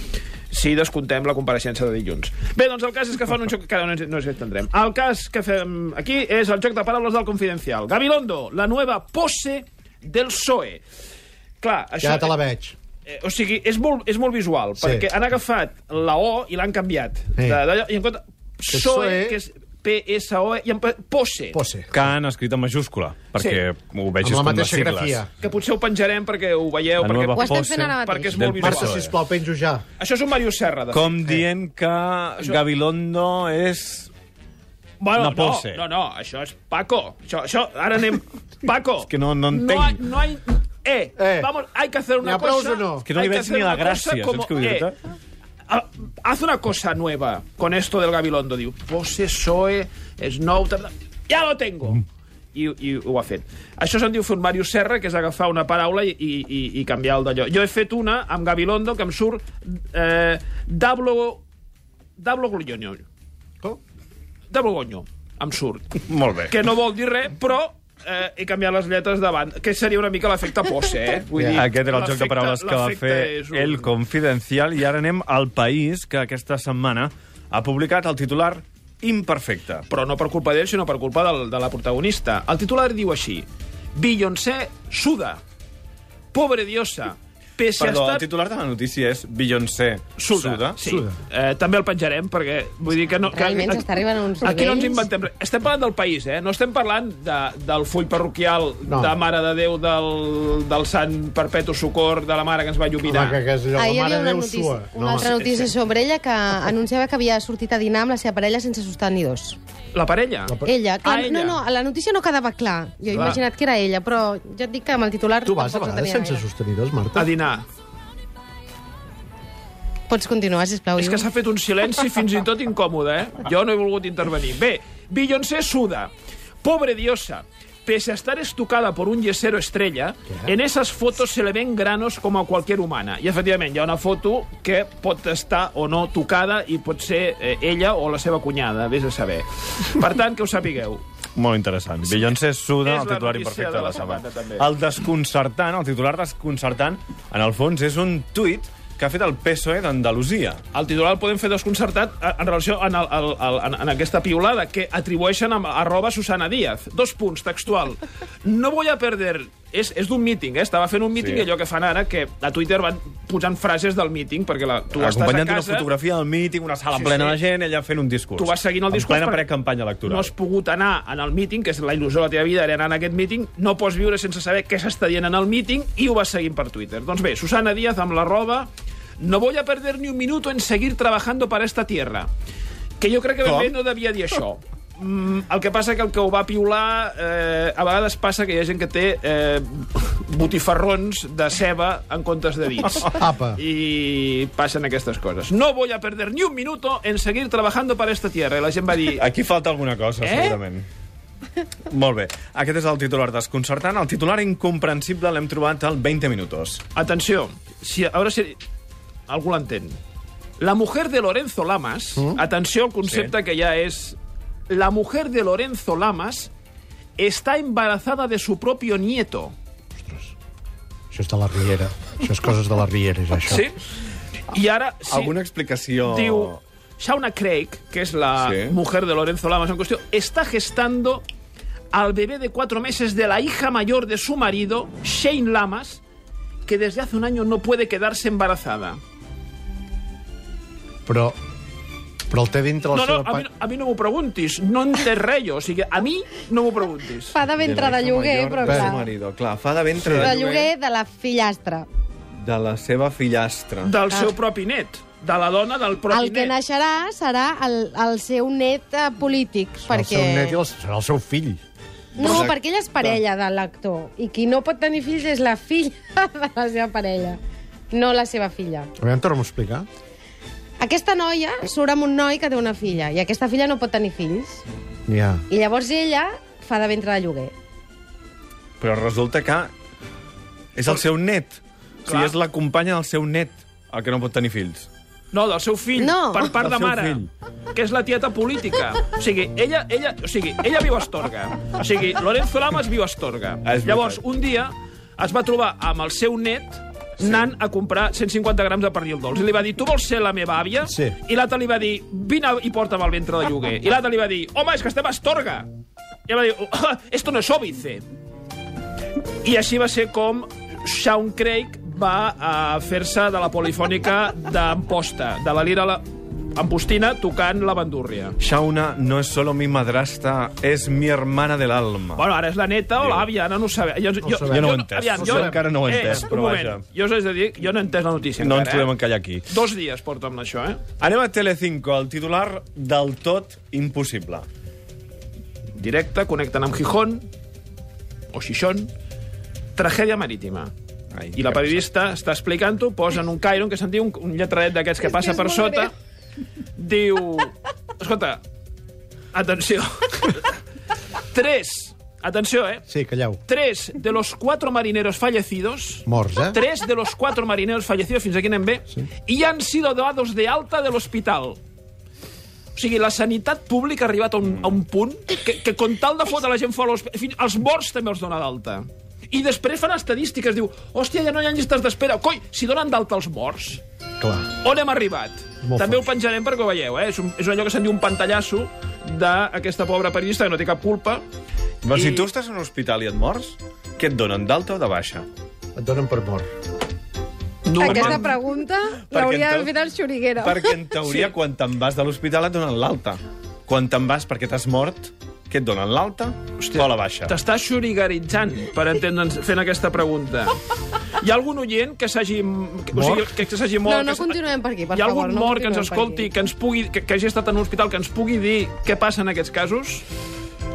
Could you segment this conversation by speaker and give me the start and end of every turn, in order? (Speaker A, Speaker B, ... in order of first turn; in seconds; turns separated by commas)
Speaker A: 0.5-10.8, Speaker A: 11.6-12.3, Speaker B: 12.0-12.8, Speaker A: 13.1-21.6, Speaker B: 14.8-15.1, Speaker B: 17.4-17.6, Speaker B: 18.7-19.4, Speaker B: 21.5-22.1, Speaker C: 21.9-25.2, Speaker A: 23.3-23.6, Speaker B: 24.2-25.3, Speaker A: 25.4-29.0, Speaker C: 27.0-29.1, Speaker D: 27.3-29.0, Speaker B: 28.5-29.8, Speaker A: 30.0-31.2, Speaker C: 30.9-34.1, Speaker A: 35.0-44.9, Speaker C: 35.2-35.8, Speaker C: 39.0-40.0, Speaker B: 41.2-41.5, Speaker B: 42.2-43.1, Speaker C: 43.0-45.0, Speaker A: 45.7-61.4, Speaker A: 62.2-63.0, Speaker A: 64.5-65.9, Speaker C: 66.1-66.5, Speaker A: 66.5-73.9, Speaker B: 71.3-71.7, Speaker C: 71.5-79.8, Speaker A: 79.9-85.4, Speaker A: 86.3-88.2, Speaker C: 87.8-90.8, Speaker A: 90.2-93.8, Speaker B: 90.8-91.1, Speaker D: 93.3-95.0, Speaker A: 94.4-103.4, Speaker B: 98.8-99.1, Speaker B: 103.0-105.3, Speaker D: 103.7-109.6, Speaker A: 105.3-105.7, Speaker A: 109.9-111.6, Speaker B: 110.5-110.7, Speaker D: 110.6-116.4, Speaker A: 113.1-113.4, Speaker B: 115.4-117.3, Speaker A: 117.1-117.7, Speaker D: 120.1-121.3, Speaker A: 121.0-141.0, Speaker C: 141.3-150.6, Speaker A: 142.8-144.7, Speaker A: 150.7-165.9, Speaker C: 161.2-161.5, Speaker C: 165.0-170.3, Speaker A: 166.9-167.4, Speaker A: 168.4-169.4, Speaker A: 170.1-182.3, Speaker A: 183.0-199.2, Speaker B: 193.1-193.6, Speaker C: 199.2-200.8, Speaker A: 200.2-200.6, Speaker C: 201.9-206.8, Speaker A: 206.9-208.6, Speaker A: 209.3-210.0, Speaker A: 210.6-214.2, Speaker C: 213.1-213.3, Speaker A: 214.7-216.5, Speaker A: 217.2-219.5, Speaker B: 220.0-220.3, Speaker B: 221.1-223.7, Speaker A: 223.4-223.7, Speaker A: 224.5-225.3, Speaker C: 225.1-226.6, Speaker A: 226.0-231.3, Speaker C: 228.4-228.7, Speaker A: 231.9-236.0, Speaker A: 236.7-239.0, Speaker B: 241.1-241.4, Speaker B: 242.3-243.4, Speaker A: 242.9-247.3, Speaker D: 247.3-249.1, Speaker C: 247.6-250.7, Speaker B: 248.6-249.0, Speaker B: 250.0-250.3, Speaker D: 250.2-251.9, Speaker C: 252.4-253.9, Speaker A: 253.8-256.5, Speaker D: 256.1-260.6, Speaker B: 259.9-261.6, Speaker D: 262.1-267.4, Speaker C: 262.2-263.2, Speaker A: 262.2-262.5, Speaker D: 267.9-268.9, Speaker B: 269.0-269.9, Speaker D: 270.8-274.6, Speaker B: 275.1-275.4, Speaker D: 275.5-277.5, Speaker C: 278.8-279.7, Speaker C: 280.8-284.9, Speaker A: 282.1-282.4, Speaker A: 285.3-305.7, Speaker D: 286.0-286.5, Speaker C: 286.6-287.3, Speaker C: 293.6-294.2, Speaker B: 300.8-301.1, Speaker A: 306.3-308.0, Speaker A: 309.4-318.4, Speaker C: 318.4-322.2, Speaker A: 322.1-328.9, Speaker C: 323.0-323.3, Speaker B: 324.2-326.3, Speaker C: 324.5-326.8, Speaker C: 328.4-329.4, Speaker A: 329.5-330.8, Speaker C: 331.0-334.4, Speaker A: 335.8-337.3, Speaker A: 338.3-338.9, Speaker A: 339.8-340.7, Speaker C: 341.1-341.8, Speaker A: 341.3-345.9, Speaker A: 346.8-348.4, Speaker A: 349.3-350.5, Speaker A: 351.3-352.8, Speaker B: 352.9-353.4, Speaker A: 353.5-361.6, Speaker B: 356.1-356.6, Speaker A: 362.7-373.8, Speaker B: 374.2-374.5, Speaker A: 374.6-381.2, Speaker B: 375.6-376.1, Speaker C: 381.9-385.2, Speaker A: 381.9-382.3, Speaker B: 385.7-386.5, Speaker A: 387.6-388.4, Speaker D: 387.7-390.8, Speaker C: 387.8-388.3, Speaker C: 389.1-389.7, Speaker C: 390.4-397.3, Speaker A: 391.0-391.3, Speaker A: 396.6-400.6, Speaker A: 401.2-404.4, Speaker B: 402.9-403.3, Speaker D: 403.8-406.3, Speaker A: 404.9-410.0